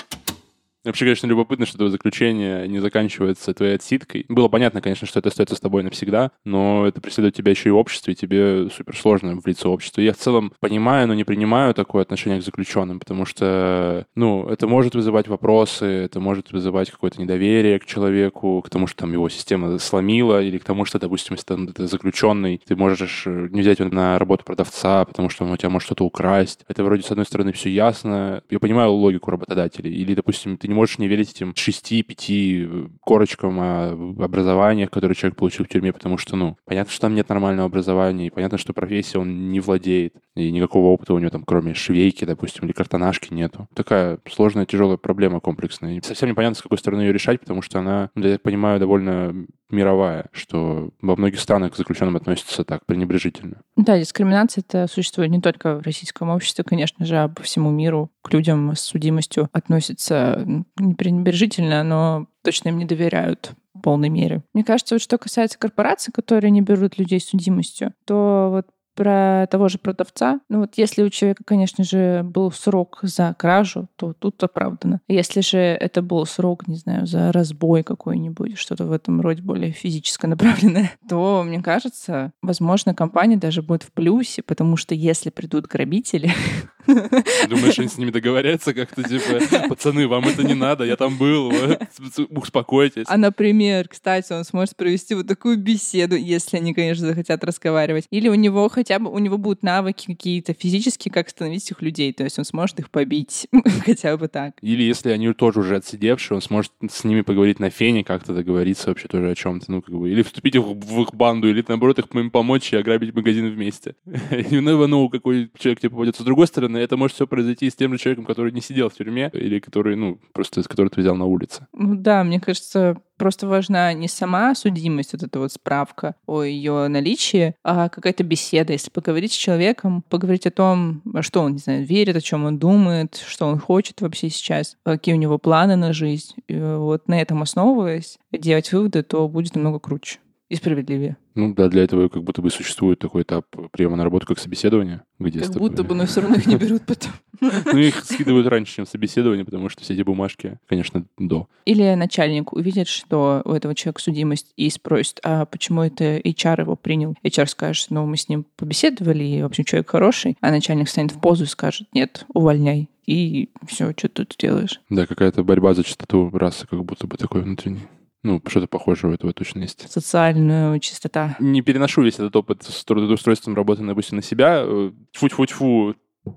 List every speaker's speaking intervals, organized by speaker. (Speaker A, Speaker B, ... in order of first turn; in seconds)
Speaker A: 0.8-53.6, 87.4-93.1, 104.6-121.7, 141.3-146.6, 147.6-151.5, 164.9-169.9, 171.4-176.0
Speaker B: 53.8-87.7, 93.1-104.6, 121.7-141.2, 145.4-148.2, 151.7-164.8, 169.9-171.4